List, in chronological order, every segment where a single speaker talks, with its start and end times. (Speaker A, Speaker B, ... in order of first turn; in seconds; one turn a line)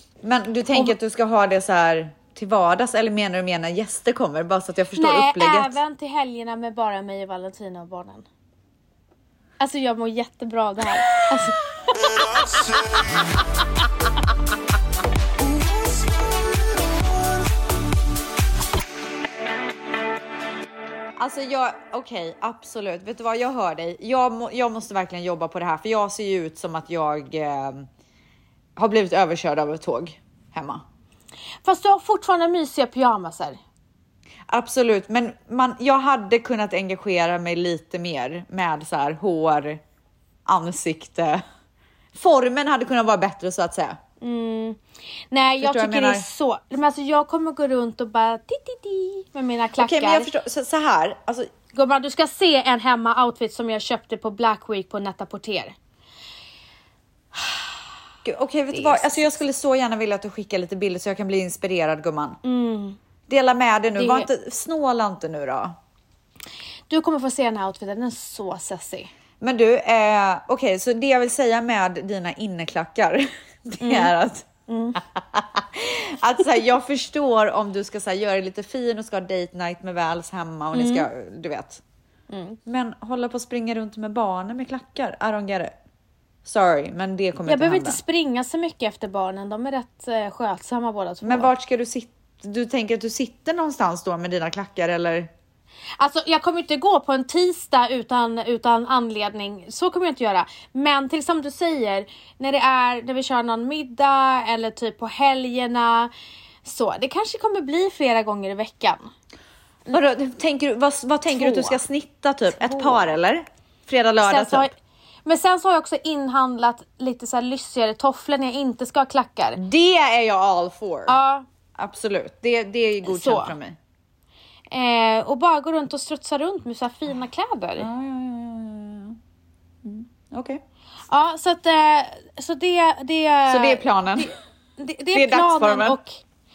Speaker A: 0.2-5.8
Speaker B: 4.9-8.2
Speaker B: 9.6-12.3
Speaker A: 21.2-27.9
Speaker A: 28.8-30.8
Speaker B: 31.6-33.6
Speaker A: 34.5-39.8
Speaker A: 40.5-41.4
Speaker A: 42.1-44.0
Speaker B: 44.2-50.3
Speaker A: 45.6-46.2
Speaker A: 49.8-51.5
Speaker B: 51.7-55.7
Speaker A: 58.2-62.4
Speaker B: 58.7-59.4
Speaker B: 62.4-63.0
Speaker A: 63.3-65.8
Speaker B: 64.0-64.3
Speaker B: 66.9-69.1
Speaker A: 69.4-81.8
Speaker B: 73.8-74.1
Speaker B: 74.7-75.0
Speaker B: 80.7-81.1
Speaker B: 82.3-82.6
Speaker A: 82.7-85.7
Speaker A: 86.4-88.0
Speaker B: 87.5-91.5
Speaker A: 91.2-95.3
Speaker B: 96.0-106.1
Speaker B: 106.6-109.1
Speaker A: 109.9-114.7
Speaker B: 111.3-111.8
Speaker B: 112.5-113.1
Speaker B: 114.2-114.7
Speaker B: 115.2-119.6
Speaker A: 119.5-121.2
Speaker B: 121.1-121.4
Speaker A: 121.8-123.8
Speaker B: 123.0-123.5
Speaker B: 124.7-127.9
Speaker A: 127.8-129.2
Speaker A: 129.8-130.6
Speaker B: 131.1-136.2
Speaker A: 133.5-134.3
Speaker A: 135.1-136.0